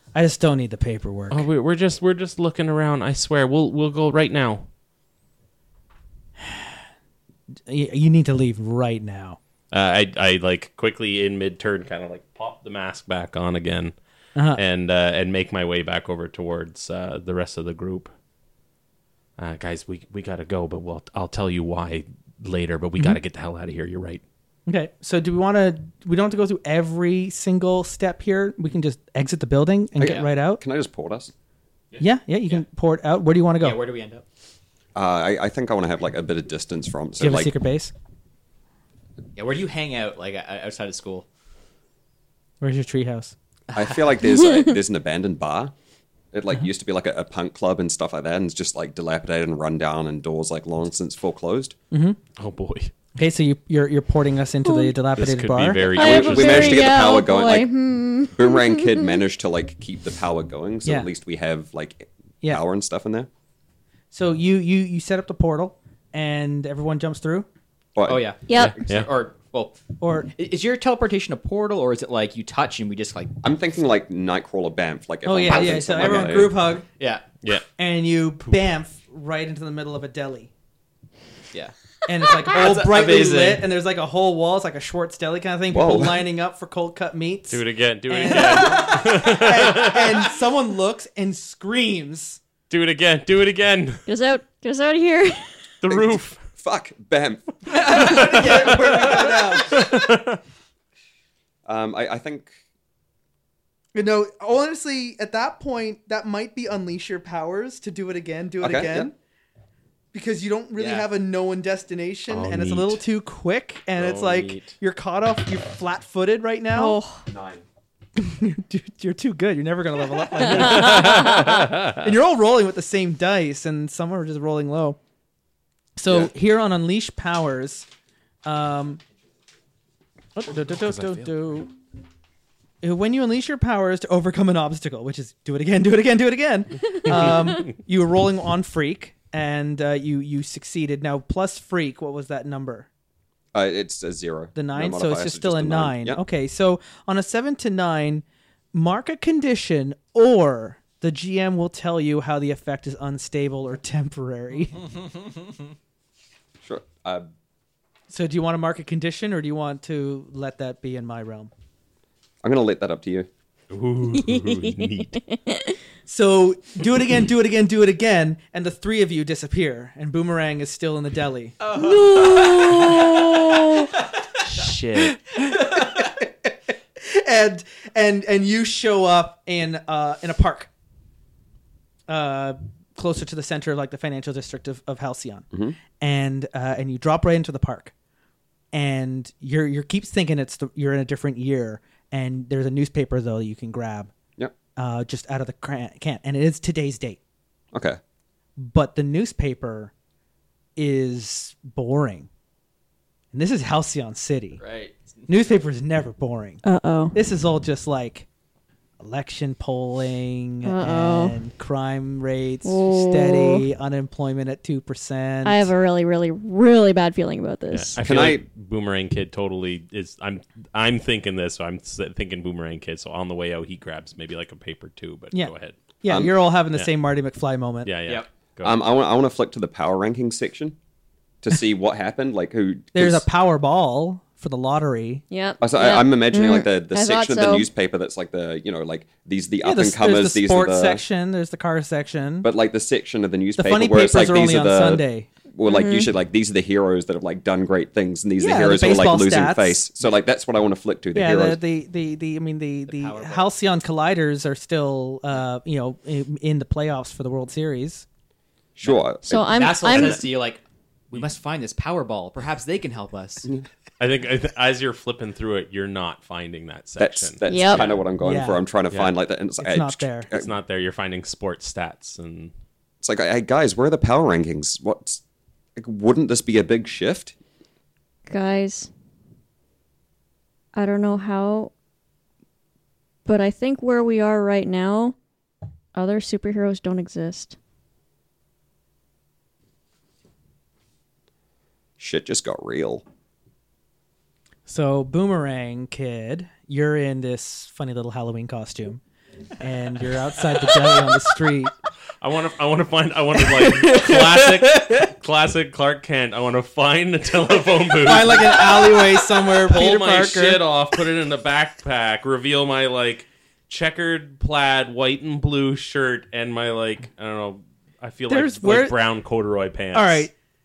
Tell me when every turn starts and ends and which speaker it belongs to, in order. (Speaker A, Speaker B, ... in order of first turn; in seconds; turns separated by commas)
Speaker A: 0.1-1.5, Speaker B: 1.3-4.7, Speaker A: 6.4-6.7, Speaker A: 7.7-9.4, Speaker B: 9.7-13.9, Speaker A: 14.4-14.6, Speaker B: 14.5-18.1, Speaker B: 19.4-24.2, Speaker A: 24.7-30.6, Speaker C: 30.0-31.3, Speaker D: 32.0-32.6, Speaker A: 32.0-33.8, Speaker D: 33.6-34.2, Speaker C: 35.0-37.5, Speaker A: 37.2-37.9, Speaker D: 39.4-41.3, Speaker A: 42.6-43.4, Speaker D: 43.7-44.0, Speaker C: 43.8-45.7, Speaker E: 44.2-44.8, Speaker C: 46.3-51.8, Speaker A: 51.9-52.2, Speaker B: 52.4-52.9, Speaker A: 53.2-56.0, Speaker E: 54.6-55.0, Speaker B: 55.2-57.0, Speaker E: 56.0-59.2, Speaker C: 56.0-57.7, Speaker C: 58.3-63.3, Speaker A: 64.1-67.5, Speaker C: 68.0-68.2, Speaker D: 68.0-69.8, Speaker E: 68.5-68.7, Speaker B: 68.5-69.1, Speaker A: 70.0-70.3, Speaker D: 70.3-73.4, Speaker C: 73.4-76.6, Speaker A: 75.2-76.9, Speaker D: 75.5-77.3, Speaker A: 77.8-80.5, Speaker A: 82.1-92.4, Speaker D: 82.3-83.7, Speaker C: 85.7-86.3, Speaker B: 87.5-90.3, Speaker B: 92.7-94.1, Speaker E: 94.1-95.6, Speaker B: 95.8-96.4, Speaker C: 95.9-99.5, Speaker D: 97.7-99.0, Speaker A: 97.8-99.9, Speaker B: 97.8-100.4, Speaker C: 101.7-102.5, Speaker A: 103.9-109.1, Speaker C: 108.6-109.1, Speaker A: 110.1-117.0, Speaker D: 110.8-111.1, Speaker B: 112.3-113.0, Speaker B: 114.0-114.8, Speaker E: 116.7-117.3, Speaker C: 117.3-117.6, Speaker A: 118.2-125.0, Speaker E: 120.4-121.7, Speaker B: 120.4-122.0, Speaker A: 126.0-127.9, Speaker A: 128.4-129.0, Speaker A: 130.3-131.7, Speaker B: 130.7-131.3, Speaker A: 132.8-142.9, Speaker C: 143.5-146.2, Speaker A: 144.6-154.9, Speaker C: 156.6-157.3, Speaker A: 158.1-161.5, Speaker C: 162.4-163.3, Speaker B: 163.7-165.1, Speaker E: 164.1-165.8, Speaker A: 166.1-171.6, Speaker D: 171.6-173.2, Speaker E: 171.7-173.9, Speaker D: 173.8-174.5, Speaker B: 174.5-175.2, Speaker A: 175.1-180.7, Speaker D: 175.4-176.1, Speaker A: 182.1-185.5, Speaker A: 186.0-187.9, Speaker A: 188.7-194.1, Speaker A: 194.8-197.2, Speaker C: 197.7-198.0, Speaker A: 198.6-199.9, Speaker A: 200.8-202.3, Speaker A: 203.3-204.6, Speaker D: 204.6-205.3, Speaker A: 205.3-206.6, Speaker E: 206.6-207.2, Speaker A: 207.1-208.3, Speaker A: 209.0-215.7, Speaker E: 210.6-211.4, Speaker E: 212.7-213.7, Speaker E: 215.4-218.0, Speaker B: 217.7-225.8, Speaker C: 218.0-218.4, Speaker A: 225.3-227.9, Speaker C: 226.1-226.3, Speaker B: 227.8-228.8, Speaker C: 228.6-230.8, Speaker C: 231.4-233.3, Speaker A: 232.9-235.2, Speaker E: 235.3-237.7, Speaker C: 235.6-241.0, Speaker A: 239.6-242.5, Speaker C: 242.4-251.6, Speaker A: 243.6-245.3, Speaker E: 245.7-246.1, Speaker A: 248.4-249.8, Speaker A: 251.1-258.1, Speaker D: 252.9-253.5, Speaker C: 258.8-260.2, Speaker D: 258.8-263.5, Speaker E: 259.2-260.3, Speaker B: 264.0-268.1, Speaker C: 267.0-270.5, Speaker E: 267.5-267.9, Speaker A: 268.2-268.6, Speaker A: 269.6-270.3, Speaker B: 270.3-272.5, Speaker C: 273.0-275.2, Speaker C: 275.8-277.3, Speaker E: 278.3-278.9, Speaker E: 280.7-281.7, Speaker E: 283.2-285.2, Speaker E: 285.9-287.6, Speaker C: 292.0-293.0, Speaker A: 294.7-299.0, Speaker A: 299.6-301.7, Speaker B: 302.2-320.3, Speaker D: 303.5-305.1, Speaker A: 308.0-310.6, Speaker A: 318.3-319.0, Speaker A: 319.9-320.3